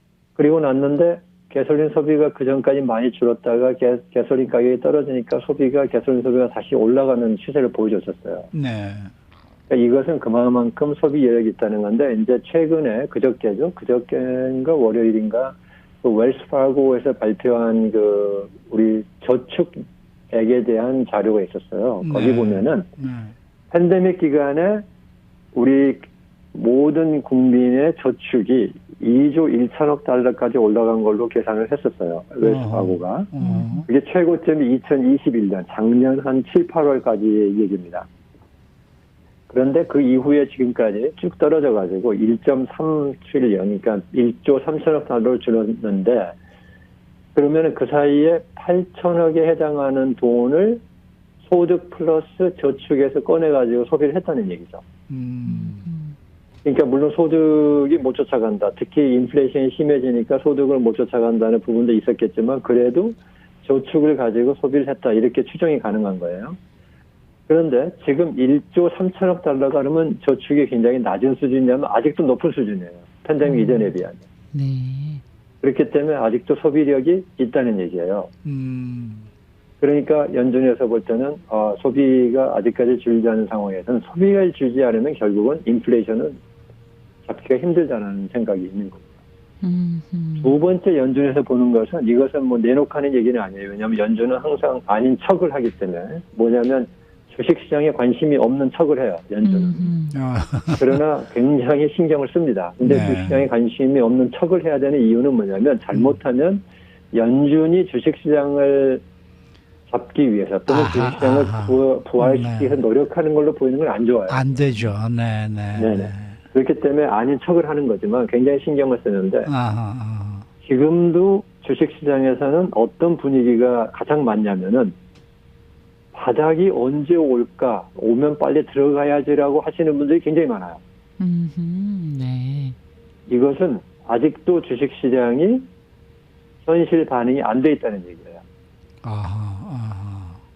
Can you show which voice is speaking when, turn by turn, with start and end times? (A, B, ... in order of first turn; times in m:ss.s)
0:00.4-0:08.5 A
0:08.5-0:09.1 B
0:09.7-0:22.9 A
0:22.0-0:23.3 B
0:23.7-0:24.8 A
0:25.5-0:33.3 A
0:32.4-0:33.8 B
0:33.4-0:33.9 C
0:33.8-0:38.1 A
0:39.5-0:46.4 A
0:47.3-0:50.8 A
0:51.4-0:54.8 A
0:55.1-0:55.8 B
0:55.4-0:56.2 C
0:56.6-1:06.6 A
1:07.5-1:14.2 A
1:13.4-1:13.9 C
1:14.5-1:15.2 C
1:15.6-1:18.3 A
1:18.4-1:19.2 B
1:19.8-1:26.4 A
1:27.2-1:29.0 A
1:29.6-1:30.6 C
1:30.4-1:39.9 A
1:39.4-1:40.2 C
1:40.1-1:41.0 B
1:40.8-1:49.0 A
1:42.8-1:43.5 B
1:49.9-1:54.6 A
1:50.7-1:52.8 B
1:54.3-1:56.4 B
1:55.8-1:59.5 A
1:59.5-2:00.4 B
2:00.6-2:04.9 A
2:06.1-2:10.8 A
2:11.2-2:12.7 C
2:13.3-2:15.7 A
2:16.6-2:18.4 A
2:19.0-2:20.4 B